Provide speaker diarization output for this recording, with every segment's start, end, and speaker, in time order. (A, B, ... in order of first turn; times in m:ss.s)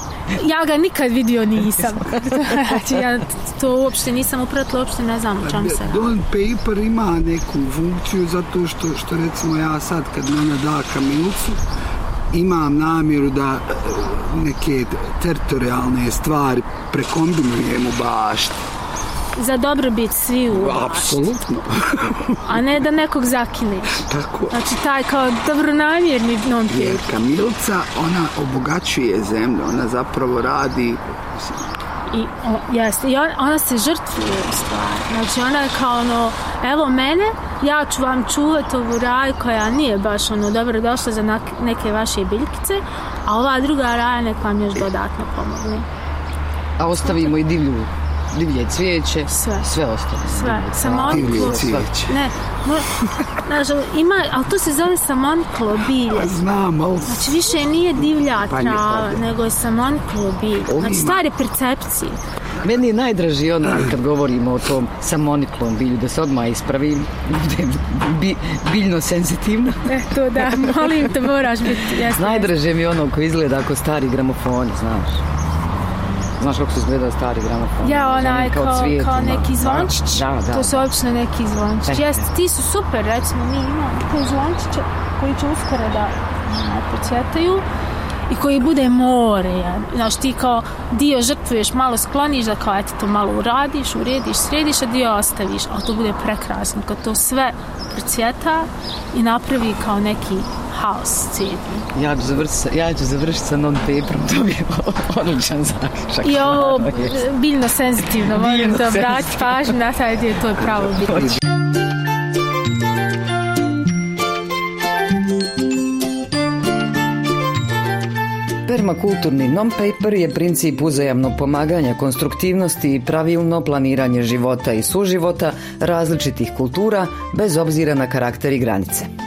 0:00.3-0:06.1 A
0:01.7-0:03.0 B
0:05.4-0:11.6 C
0:12.3-0:18.6 C
0:19.4-0:21.4 A
0:20.5-0:22.4 C
0:22.4-0:27.1 A
0:24.0-0:24.6 C
0:26.7-0:31.5 C
0:32.1-0:45.8 A
0:46.8-0:51.9 B
0:47.0-0:47.3 A
0:49.3-0:49.7 A
0:50.2-0:52.9 A
0:51.1-0:52.1 C
0:53.4-0:56.4 A
0:56.1-0:57.3 C
0:57.0-1:02.2 A
0:58.3-0:59.2 C
1:00.8-1:01.2 C
1:02.6-1:11.0 B
1:09.8-1:12.5 A
1:12.1-1:15.2 B
1:16.4-1:20.8 B
1:17.8-1:27.6 A
1:21.9-1:22.3 B
1:28.3-1:41.9 A
1:41.9-1:47.2 B
1:46.2-1:51.3 A
1:48.2-1:49.8 B
1:58.6-2:09.1 B